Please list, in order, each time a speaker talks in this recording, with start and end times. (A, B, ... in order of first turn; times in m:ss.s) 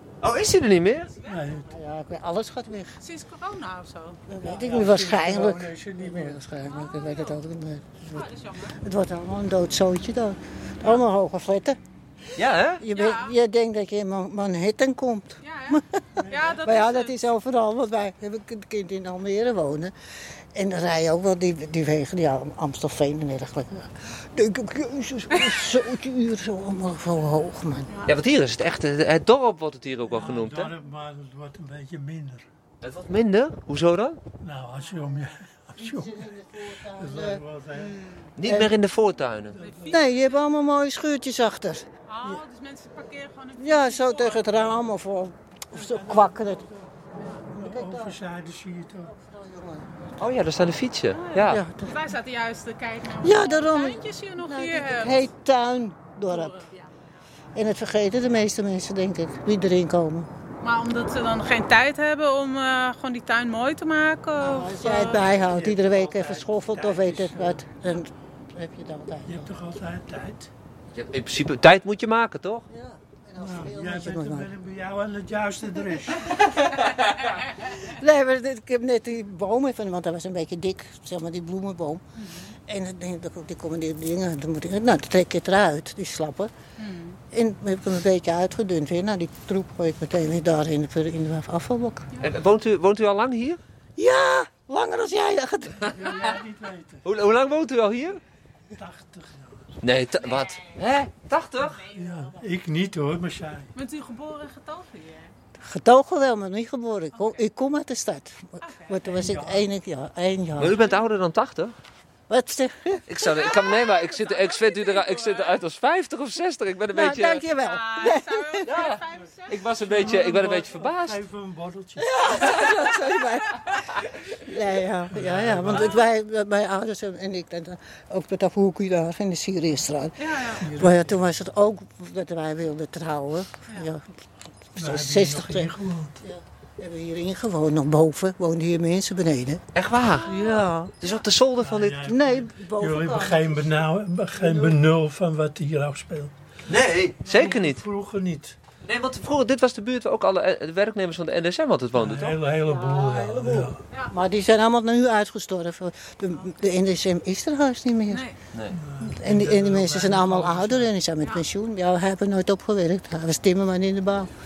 0:00.2-0:01.1 A
0:01.2-0:01.6 B
0:01.2-0:01.7 C
0:01.7-0:03.0 D
0:03.0-0:04.2 B
0:04.3-0:11.8 D
0:04.4-0:06.4 C
0:06.7-0:07.4 B
0:08.1-0:08.8 B
0:12.4-0:12.8 A
0:12.8-0:19.9 D
0:12.9-0:13.3 B
0:15.4-0:17.1 B
0:16.2-0:16.5 C
0:20.5-0:28.0 D
0:28.1-0:30.7 A
0:30.1-0:32.5 C
0:32.8-0:34.2 A
0:34.4-0:36.3 C
0:35.8-0:37.4 D
0:36.9-0:38.0 C
0:38.0-0:38.3 B
0:38.4-0:39.6 A
0:38.4-0:38.7 D
0:39.5-0:39.9 C
0:39.6-0:40.4 B
0:39.9-0:42.4 D
0:42.1-0:44.6 B
0:43.6-0:46.6 D
0:45.7-0:46.9 C
0:47.5-0:48.2 D
0:47.6-0:49.1 C
0:49.0-0:49.9 D
0:50.2-0:51.6 A
0:51.2-0:55.3 B
0:51.5-0:52.0 D
0:53.2-0:56.7 D
0:56.3-0:56.9 B
0:57.6-1:00.3 D
1:00.6-1:05.2 B
1:04.4-1:09.5 D
1:05.3-1:07.7 C
1:09.3-1:10.5 C
1:10.9-1:12.7 A
1:12.7-1:14.5 D
1:13.4-1:16.5 C
1:16.2-1:17.0 D
1:17.7-1:22.0 D
1:22.2-1:22.5 B
1:22.7-1:26.5 D
1:26.8-1:27.2 B
1:27.3-1:32.1 D
1:32.2-1:33.6 A
1:34.0-1:36.3 D
1:35.9-1:37.0 C
1:37.0-1:38.2 A
1:38.8-1:39.7 C
1:39.8-1:41.8 A
1:41.8-1:43.7 C
1:43.8-1:45.3 B
1:45.6-1:50.9 D
1:47.2-1:47.4 B
1:48.6-1:49.0 B
1:49.1-1:49.7 C
1:50.6-1:51.7 A
1:52.3-1:53.7 D
1:53.1-1:57.5 A
1:54.0-1:55.6 B
1:56.9-1:58.7 D
1:57.6-2:00.2 B
1:58.7-2:01.2 A
1:59.9-2:02.2 C
2:02.0-2:14.0 D
2:05.1-2:06.0 C
2:10.2-2:10.7 B
2:10.6-2:11.1 C
2:14.7-2:19.6 D
2:14.8-2:16.2 C
2:19.8-2:20.3 A
2:20.2-2:21.1 B
2:20.2-2:21.0 D
2:21.0-2:22.1 A
2:21.6-2:26.3 C
2:22.0-2:23.8 D
2:24.4-2:24.8 D
2:26.7-2:27.8 A
2:27.2-2:28.6 C
2:28.8-2:32.4 A
2:32.0-2:33.8 C
2:32.5-2:38.3 D
2:38.1-2:38.4 B
2:38.7-2:40.9 C
2:39.0-2:44.3 D